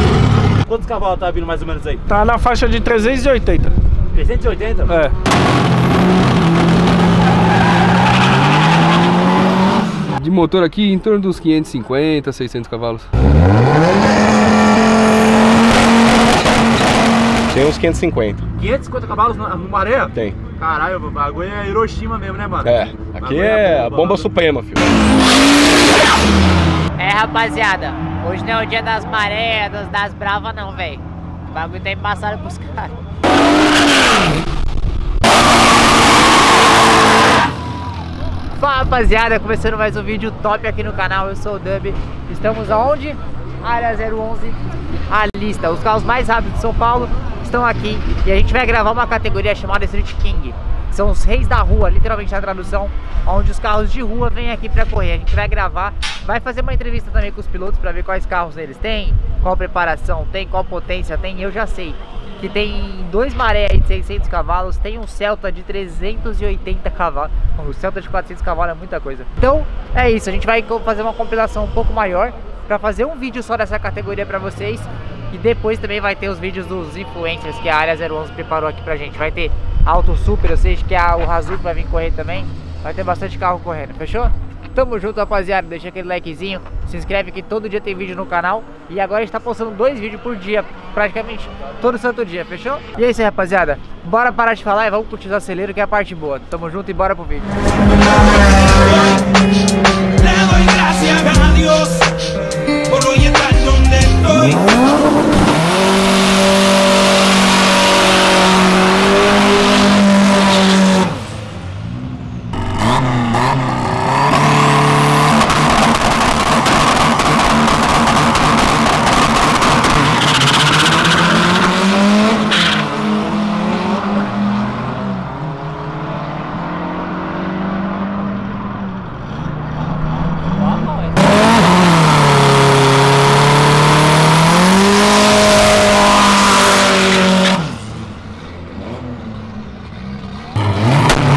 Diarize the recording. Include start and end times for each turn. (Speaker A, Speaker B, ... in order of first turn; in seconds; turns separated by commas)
Speaker A: 0.7-2.0, Speaker B: 2.1-3.7, Speaker A: 4.1-5.0, Speaker B: 4.9-5.1, Speaker C: 10.1-13.1, Speaker D: 17.5-18.4, Speaker A: 18.6-24.3, Speaker D: 22.6-24.9, Speaker E: 27.0-33.0, Speaker E: 38.5-44.6, Speaker E: 45.1-97.6, Speaker E: 100.5-101.9